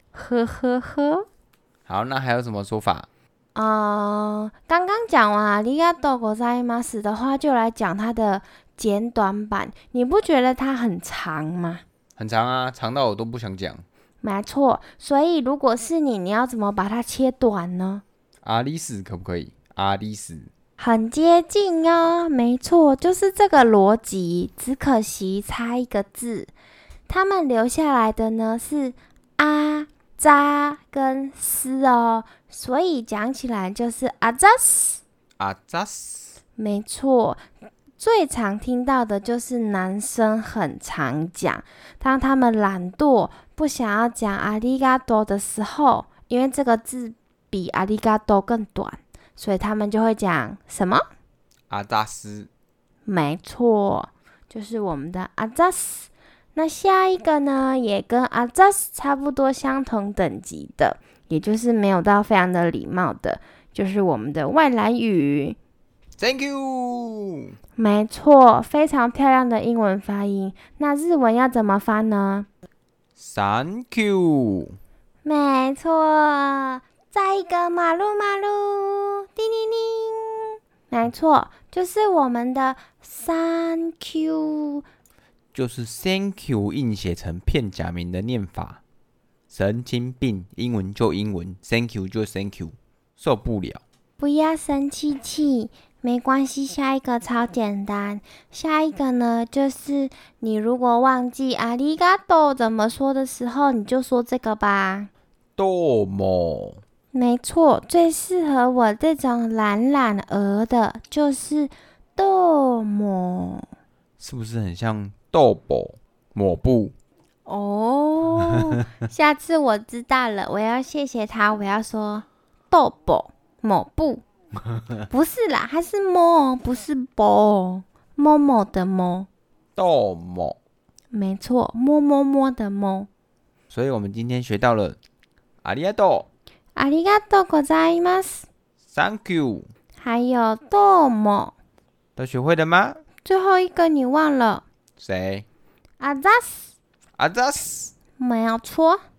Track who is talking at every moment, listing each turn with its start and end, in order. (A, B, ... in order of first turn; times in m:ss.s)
0:00.1-0:01.2 A
0:01.9-0:03.1 B
0:03.5-0:11.8 A
0:12.2-0:13.8 B
0:14.2-0:18.0 A
0:18.4-0:20.5 B
0:20.8-0:26.5 A
0:27.1-0:35.0 A
0:35.4-0:36.3 B
0:36.6-0:37.4 A
0:38.0-0:51.0 A
0:51.7-0:52.5 B
0:53.1-1:05.6 A
1:06.2-1:07.5 B
1:07.8-1:12.5 A
1:13.2-1:14.8 B
1:15.2-1:24.8 A
1:25.5-1:28.8 B
1:29.5-1:33.8 B
1:34.2-1:45.1 A
1:45.6-1:46.8 B
1:47.1-1:53.7 A
1:54.2-1:56.9 B
1:57.4-2:04.2 A
2:05.1-2:09.3 A
2:09.8-2:10.6 B
2:11.1-2:13.1 A
2:13.7-2:15.0 B
2:15.6-2:16.3 B
2:16.8-2:18.4 A
2:18.9-2:19.7 B
2:20.0-2:21.5 A
2:22.2-2:23.0 B
2:23.2-2:24.6 A
2:25.0-2:25.4 B
2:26.0-2:26.7 A
2:27.2-2:27.9 B
2:28.2-2:29.0 A